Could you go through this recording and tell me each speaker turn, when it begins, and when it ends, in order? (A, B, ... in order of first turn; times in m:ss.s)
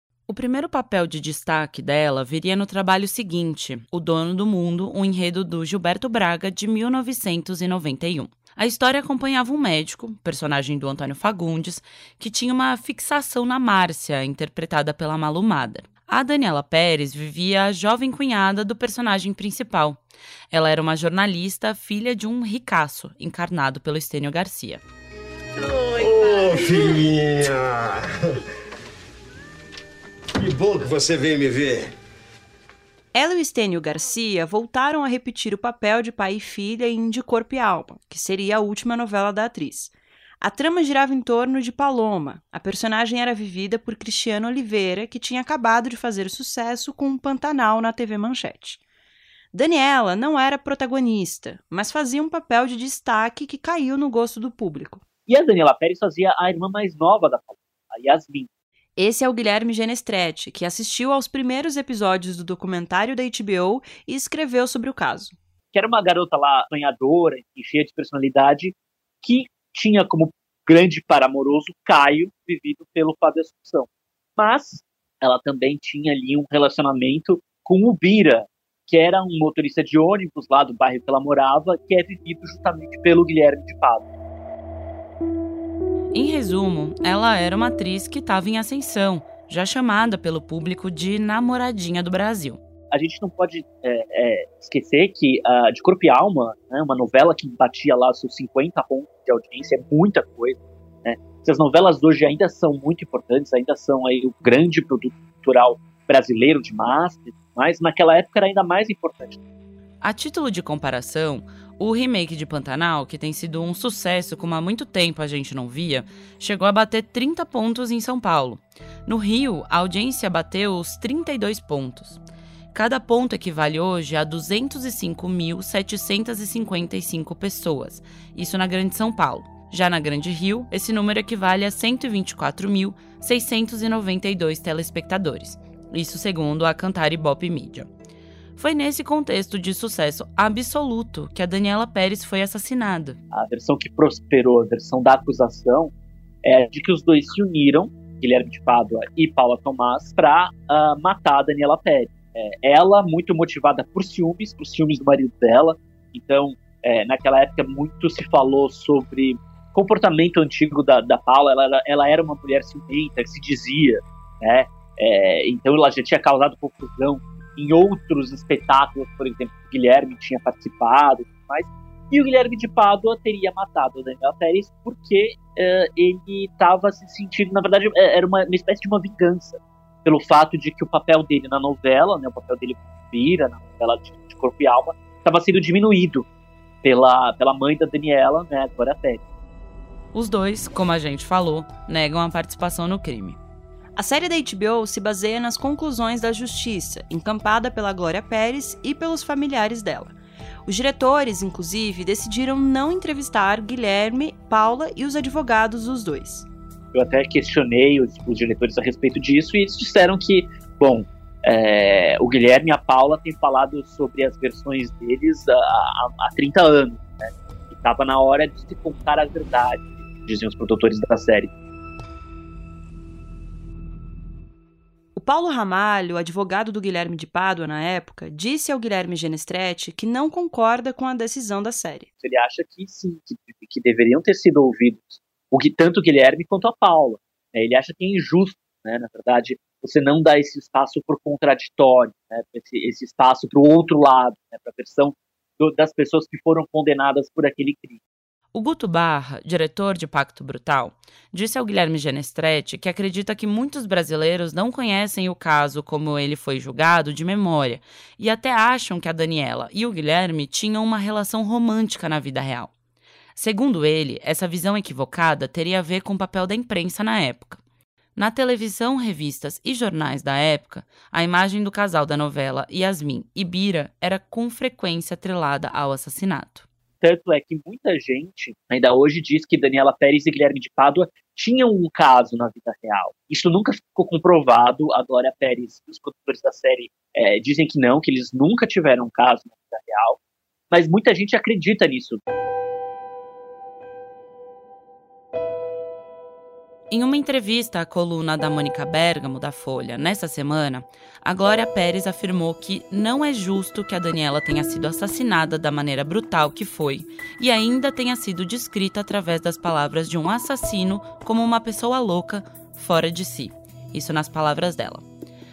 0:00.3-0:20.0 A
0:20.5-0:24.8 A
0:25.8-0:28.1 B
0:30.4-0:31.9 B
0:33.1-0:48.8 C
0:49.5-0:55.0 C
0:55.3-0:58.5 D
0:59.0-1:05.4 C
1:05.7-1:24.1 D
1:26.1-1:32.6 A
1:32.9-1:49.4 D
1:50.0-2:02.2 A
2:02.7-2:17.9 A
2:18.6-2:23.2 A
2:23.3-2:25.9 D
2:26.4-3:06.3 D
3:06.8-3:09.2 D
3:10.1-3:13.4 A
3:14.0-3:20.1 C
3:20.7-3:26.5 C
3:26.9-3:41.5 D
3:45.2-3:52.1 C
3:52.2-4:08.0 D
4:08.5-4:22.7 A
4:23.4-4:27.6 A
4:28.2-4:36.7 A
4:37.0-4:50.2 D
4:50.7-4:52.2 D
4:56.9-5:15.0 A